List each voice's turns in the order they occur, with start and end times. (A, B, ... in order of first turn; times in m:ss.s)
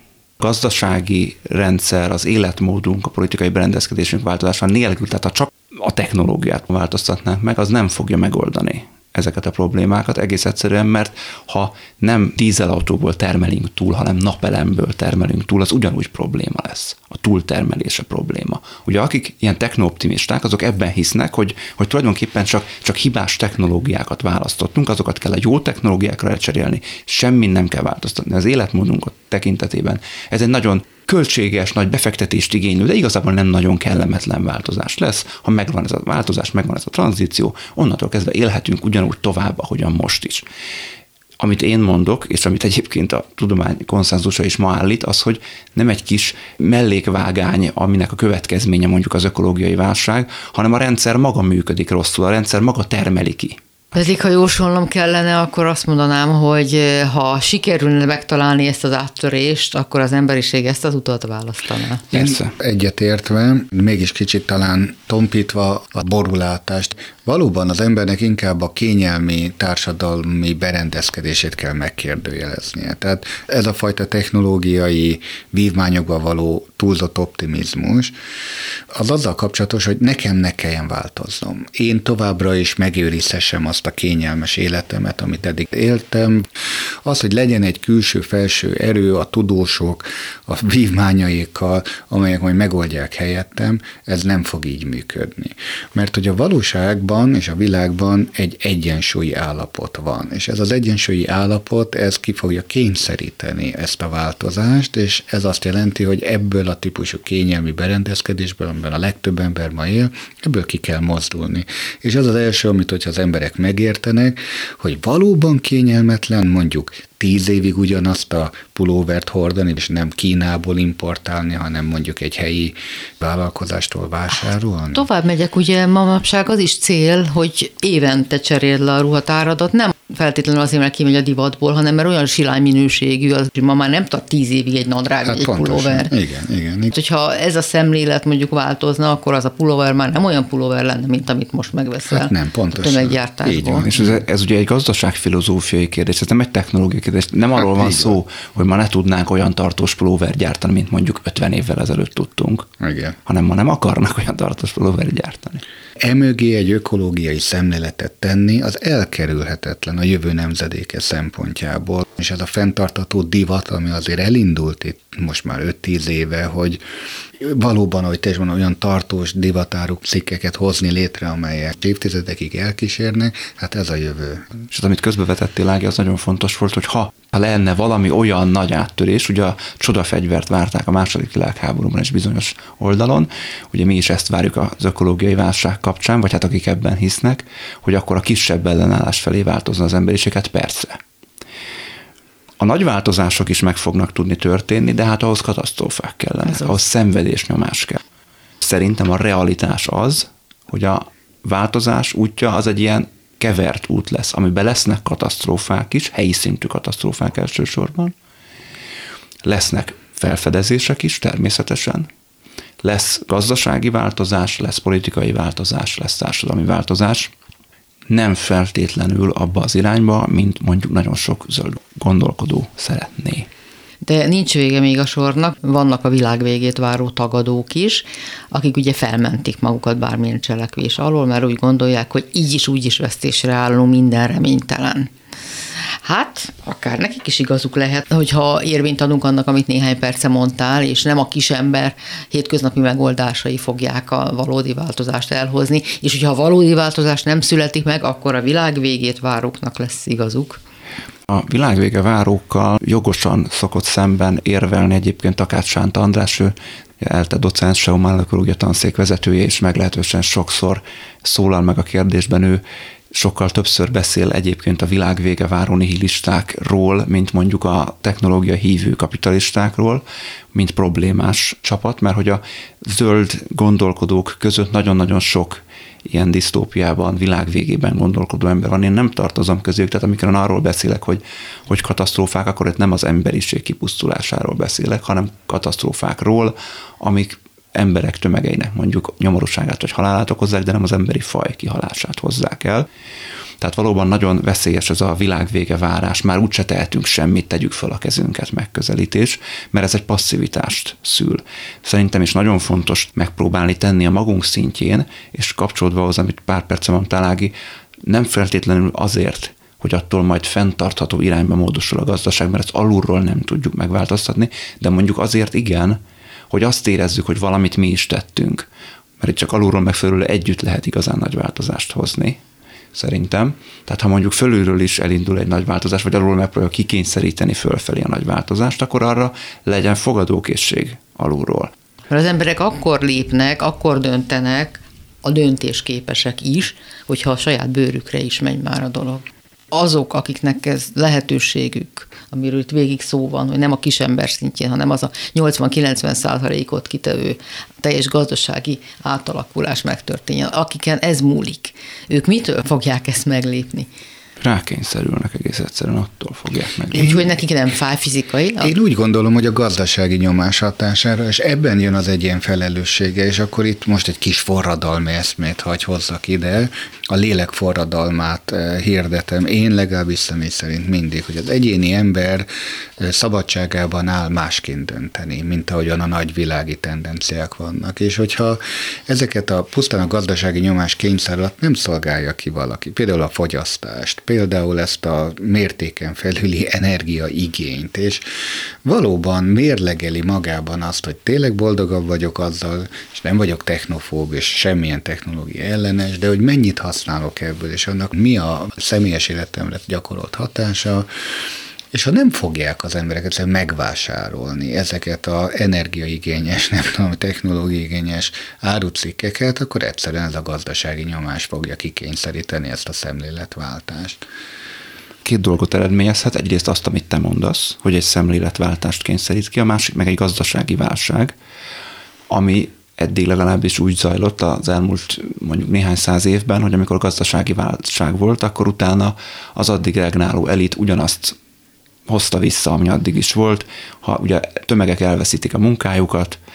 0:00.4-0:40.4 A
0:41.4-0:53.6 A
0:53.9-1:02.0 B
1:02.1-1:02.5 A
1:02.1-1:18.1 C
1:18.9-2:05.0 C
2:04.9-2:16.1 B
2:15.2-2:16.9 C
2:16.9-2:23.8 B
2:22.1-2:24.2 C
2:23.8-2:32.7 A
2:27.7-2:28.2 C
2:32.8-2:33.2 C
2:33.2-2:35.6 A
2:36.0-2:46.8 C
2:47.4-2:54.6 C
2:54.7-3:11.0 A
3:12.6-3:18.0 A
3:18.6-3:28.1 A
3:29.4-3:32.1 A
3:32.8-3:37.3 A
3:38.1-3:43.5 A
3:44.0-3:55.1 B
3:56.0-4:10.6 B
4:11.3-4:30.0 A
4:30.5-4:52.9 A
4:53.6-5:16.0 A
5:16.5-5:18.6 A
5:19.2-5:22.4 A
5:22.9-5:31.7 A
5:32.1-5:53.9 B
5:54.4-5:57.3 A
5:56.9-5:58.7 B
5:58.6-6:12.5 C
6:13.0-6:28.2 C
6:28.8-6:41.1 C
6:41.9-6:54.2 C
6:55.2-7:01.3 A
7:02.3-7:11.4 A
7:12.1-7:16.4 A